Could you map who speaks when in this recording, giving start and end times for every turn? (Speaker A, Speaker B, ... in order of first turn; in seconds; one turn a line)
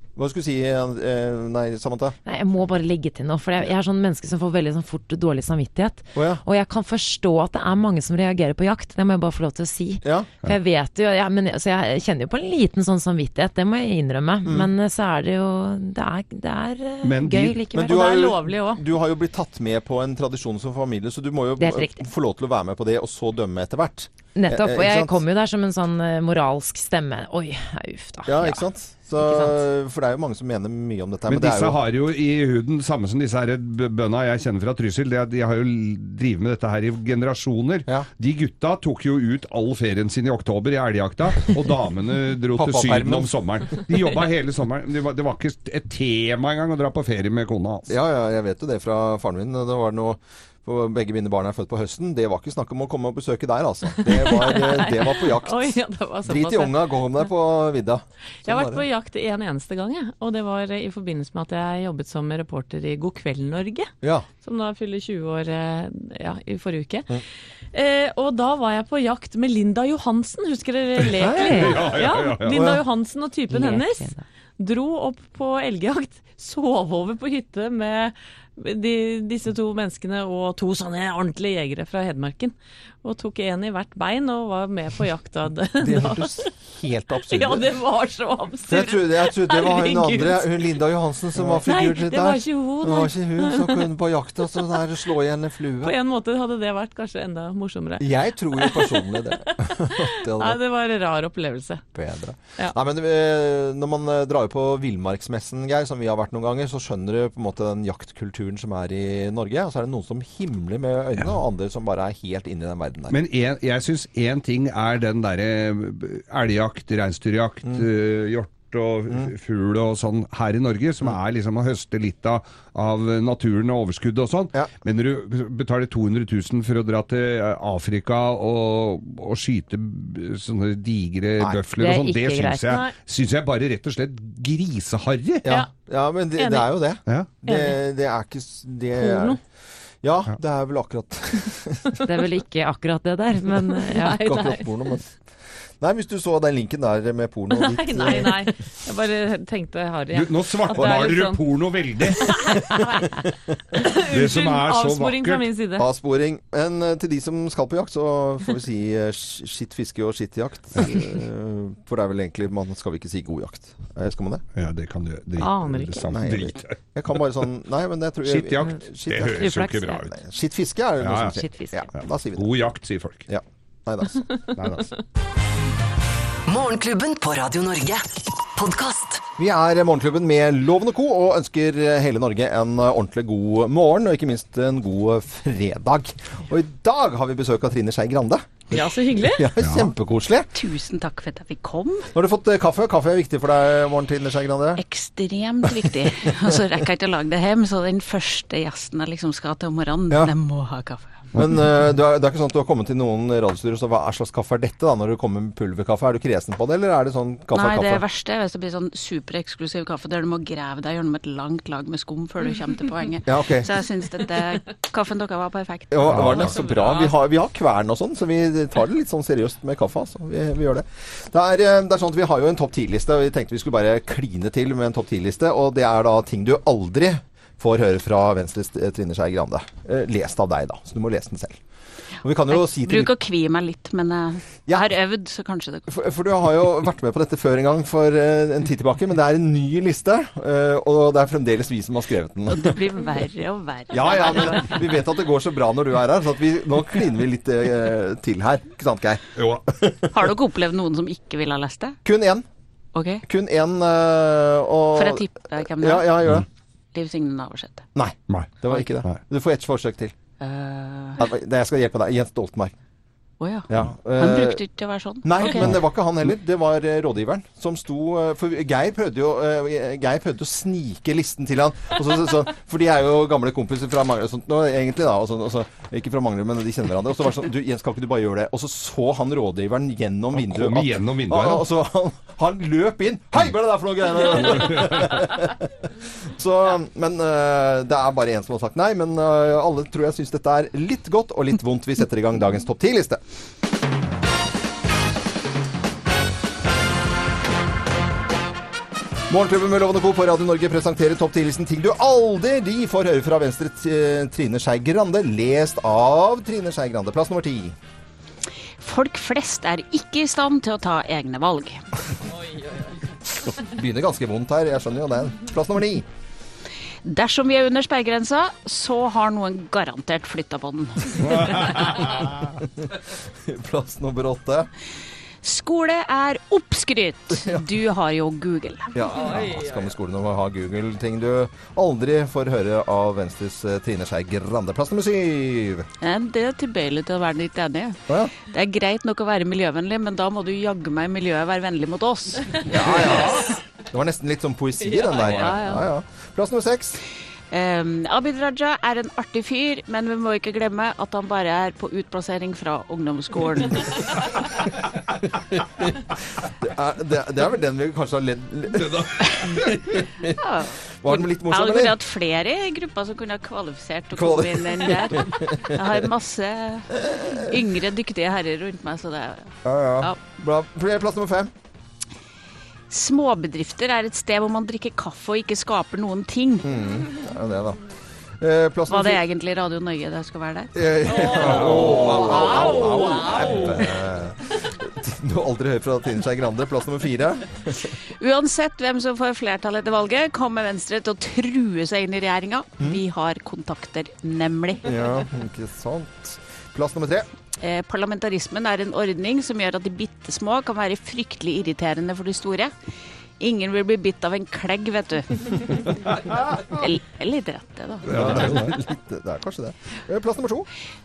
Speaker A: 0.2-2.2
Speaker B: 2.2-18.1
Speaker A: 6.1-6.4
Speaker A: 10.0-10.3
Speaker C: 17.0-17.6
Speaker A: 17.7-25.2
Speaker D: 17.8-18.8
Speaker B: 21.6-22.0
Speaker B: 24.3-28.6
Speaker A: 28.3-31.8
Speaker B: 29.2-29.6
Speaker C: 31.3-47.9
Speaker A: 42.6-43.8
Speaker A: 47.9-58.8
Speaker D: 54.0-57.1
Speaker D: 58.4-67.1
Speaker A: 64.0-64.3
Speaker D: 67.7-86.5
Speaker A: 71.2-71.7
Speaker B: 71.2-71.7
Speaker C: 71.6-72.6
Speaker A: 72.5-72.8
Speaker B: 73.5-74.2
Speaker A: 85.8-87.7
Speaker D: 87.2-90.8
Speaker A: 88.7-96.0
Speaker D: 91.6-93.9
Speaker D: 94.6-94.8
Speaker D: 95.8-101.8
Speaker A: 98.0-100.6
Speaker A: 101.9-113.2
Speaker C: 113.1-135.4
Speaker B: 131.8-132.8
Speaker A: 135.4-139.4
Speaker D: 136.4-136.7
Speaker C: 137.1-137.4
Speaker D: 137.4-137.8
Speaker D: 138.9-139.4
Speaker A: 140.0-141.9
Speaker B: 142.0-144.3
Speaker D: 143.6-144.9
Speaker A: 144.2-145.1
Speaker A: 145.8-148.5
Speaker D: 147.5-151.4
Speaker C: 150.1-152.3
Speaker D: 152.1-153.1
Speaker D: 153.8-155.9
Speaker C: 154.1-155.4
Speaker A: 155.8-164.4
Speaker C: 164.6-167.2
Speaker D: 165.4-166.2
Speaker A: 166.1-172.5
Speaker C: 168.2-170.1
Speaker B: 169.4-170.1
Speaker C: 171.0-171.4
Speaker B: 171.3-171.9
Speaker C: 172.3-173.2
Speaker A: 173.3-174.2
Speaker C: 174.6-174.9
Speaker E: 176.5-179.2
Speaker A: 179.4-190.5
Speaker D: 188.7-189.5
Speaker C: 189.6-189.9
Speaker F: 190.6-192.1
Speaker A: 192.1-194.8
Speaker F: 194.8-201.2
Speaker A: 195.6-196.3
Speaker A: 201.4-208.0
Speaker F: 207.5-216.2
Speaker A: 213.2-213.7
Speaker A: 215.9-231.6
Speaker C: 216.1-216.5
Speaker D: 216.4-217.1
Speaker A: 232.2-233.1
Speaker F: 232.5-235.9
Speaker A: 235.9-242.8
Speaker F: 242.5-244.8
Speaker A: 243.9-250.1
Speaker C: 249.4-249.6
Speaker F: 250.1-252.0
Speaker A: 252.1-252.4
Speaker F: 252.9-253.2
Speaker A: 253.2-255.2
Speaker F: 254.9-256.1
Speaker A: 255.8-256.4
Speaker F: 256.9-257.9
Speaker A: 257.9-260.1
Speaker C: 258.3-259.2
Speaker F: 260.4-261.2
Speaker A: 261.2-262.8
Speaker F: 263.4-265.7
Speaker A: 263.7-264.6
Speaker A: 265.2-293.2
Speaker C: 265.5-265.8
Speaker C: 280.4-281.6
Speaker C: 284.6-285.1
Speaker A: 299.3-307.8
Speaker F: 308.8-311.8
Speaker A: 313.5-316.1
Speaker F: 317.1-321.8
Speaker C: 321.2-322.3
Speaker A: 322.8-324.7
Speaker F: 325.4-329.4
Speaker A: 327.3-327.6
Speaker A: 328.9-335.9
Speaker D: 329.2-329.7
Speaker F: 336.0-343.1
Speaker A: 342.7-347.0
Speaker D: 344.9-345.5
Speaker F: 345.2-345.8
Speaker F: 347.5-354.1
Speaker A: 355.4-360.3
Speaker C: 358.7-359.1
Speaker F: 360.3-370.2
Speaker A: 361.0-361.9
Speaker A: 364.1-365.9
Speaker A: 369.7-371.5
Speaker F: 372.9-376.7
Speaker A: 376.6-377.8
Speaker A: 378.4-379.2
Speaker F: 378.9-381.3
Speaker A: 380.7-387.9
Speaker D: 381.1-383.8
Speaker C: 381.4-382.7
Speaker F: 382.3-383.3
Speaker F: 388.2-395.0
Speaker A: 394.8-397.3
Speaker F: 397.6-402.7
Speaker F: 403.4-405.9
Speaker F: 406.7-408.4
Speaker C: 408.1-408.7
Speaker A: 408.1-410.7